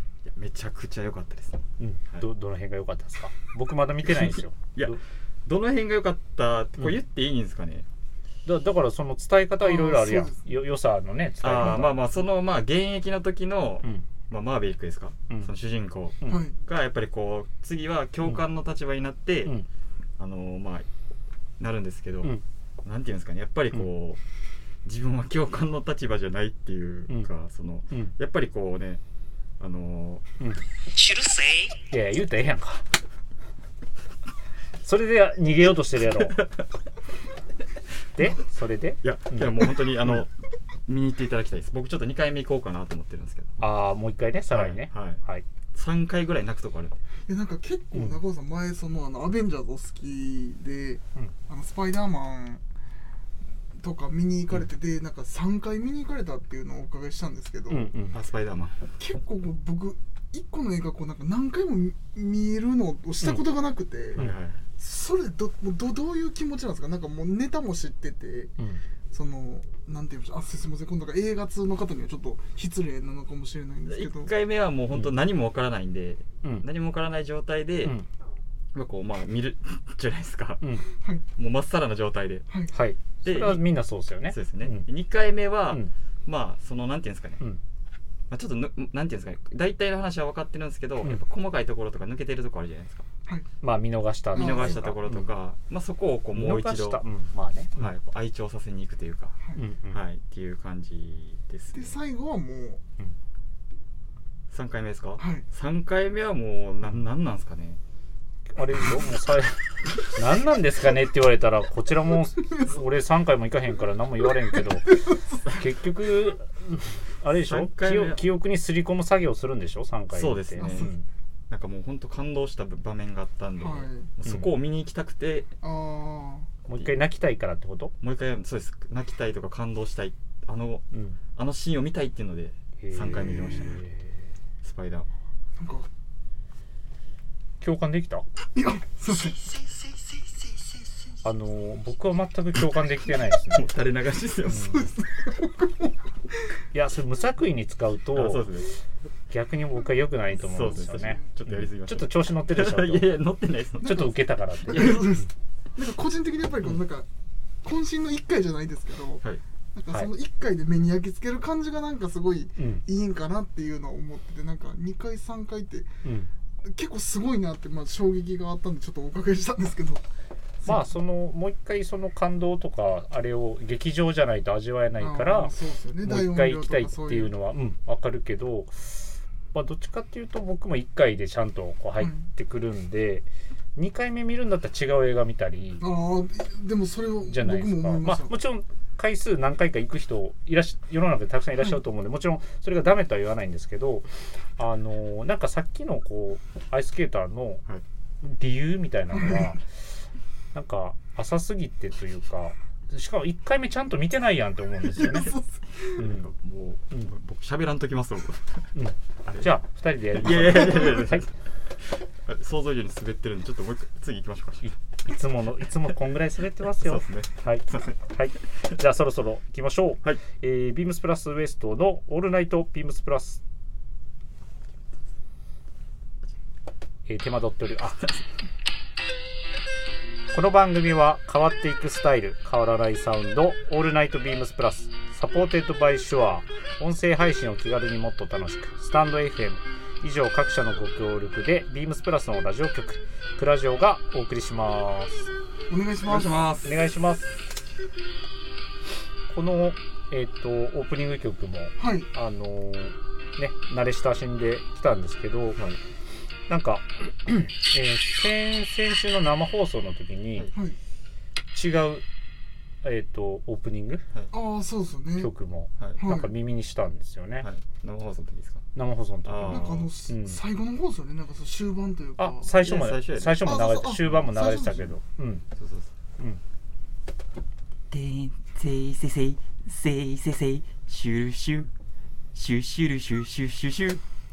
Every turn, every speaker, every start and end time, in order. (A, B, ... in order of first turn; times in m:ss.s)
0:00.2-0:02.2 A
0:01.8-0:05.0 B
0:04.2-0:07.9 A
0:08.4-0:12.0 B
0:09.6-0:10.5 C
0:11.4-0:19.6 A
0:16.2-0:16.6 C
0:20.2-0:20.9 A
0:21.6-0:24.2 A
0:24.8-0:29.0 A
0:29.6-0:30.2 A
0:30.9-0:31.8 D
0:31.9-0:32.8 B
0:34.8-0:36.4 B
0:36.2-0:36.6 A
0:38.2-0:39.5 B
0:39.0-0:40.3 A
0:40.9-0:43.6 A
0:43.6-0:45.4 B
0:44.5-0:45.2 A
0:45.7-0:47.0 A
0:47.3-0:52.6 C
0:53.8-0:57.9 C
0:57.7-0:58.2 B
0:58.1-0:58.8 A
0:59.0-1:04.2 C
1:04.2-1:04.6 A
1:04.8-1:08.5 C
1:09.1-1:14.3 C
1:13.9-1:18.0 A
1:18.7-1:20.6 A
1:21.4-1:22.5 A
1:22.7-1:24.9 B
1:23.2-1:23.6 A
1:24.3-1:27.4 A
1:28.3-1:33.1 A
1:33.6-1:35.3 B
1:34.3-1:34.9 C
1:34.3-1:37.0 A
1:36.3-1:37.9 B
1:37.8-1:39.4 A
1:39.6-1:40.0 B
1:39.9-1:42.0 A
1:41.7-1:42.8 C
1:44.5-1:47.8 A
1:45.2-1:45.4 C
1:48.6-2:01.0 B
1:57.3-1:58.2 A
2:00.1-2:00.9 A
2:00.6-2:00.9 C
2:01.5-2:05.5 A
2:03.6-2:04.1 C
2:04.2-2:04.5 B
2:05.6-2:06.5 C
2:06.7-2:07.9 B
2:08.0-2:10.8 A
2:10.9-2:11.2 B
2:11.4-2:13.8 A
2:12.8-2:14.2 B
2:13.0-2:13.8 C
2:14.6-2:15.1 A
2:15.6-2:15.9 C
2:17.6-2:18.2 B
2:18.6-2:19.6 C
2:21.2-2:23.7 B
2:23.5-2:24.9 A
2:24.5-2:24.9 B
2:24.6-2:26.0 C
2:26.7-2:28.5 B
2:28.1-2:28.7 A
2:29.3-2:33.1 B
2:30.4-2:34.1 A
2:30.9-2:31.2 C
2:33.8-2:35.2 B
2:33.8-2:34.1 C
2:34.6-2:37.1 C
2:37.6-2:39.2 C
2:39.8-2:45.9 C
2:42.6-2:42.8 B
2:46.0-2:46.3 B
2:46.6-2:50.0 C
2:50.6-3:05.8 B
2:55.0-2:57.3 C
3:02.0-3:02.2 C
3:05.8-3:08.3 C
3:07.3-3:17.6 B
3:18.2-3:19.6 B
3:20.5-3:25.3 B
3:25.0-3:26.0 C
3:26.0-3:26.3 B
3:26.0-3:28.7 A
3:28.8-3:31.3 B
3:29.3-3:29.5 A
3:30.1-3:31.3 A
3:31.8-3:34.7 A
3:34.6-3:43.4 B
3:36.8-3:38.0 A
3:47.1-3:48.2 B
3:50.3-4:05.3 B
4:05.7-4:06.4 C
4:06.0-4:06.7 A
4:06.6-4:07.3 B
4:09.3-4:15.6 B
4:11.8-4:12.1 C
4:16.5-4:20.5 B
4:21.5-4:22.0 B
4:22.8-4:24.0 B
4:24.3-4:25.3 C
4:25.2-4:27.5 B
4:26.0-4:26.3 C
4:27.4-4:28.6 A
4:28.8-4:30.4 B
4:29.2-4:29.9 A
4:29.4-4:32.6 C
4:32.2-4:35.4 B
4:32.5-4:33.7 A
4:33.4-4:34.9 C
4:35.6-4:35.9 A
4:37.9-4:41.4 D
4:40.9-4:41.7 A
4:42.3-4:44.0 A
4:42.4-4:42.7 D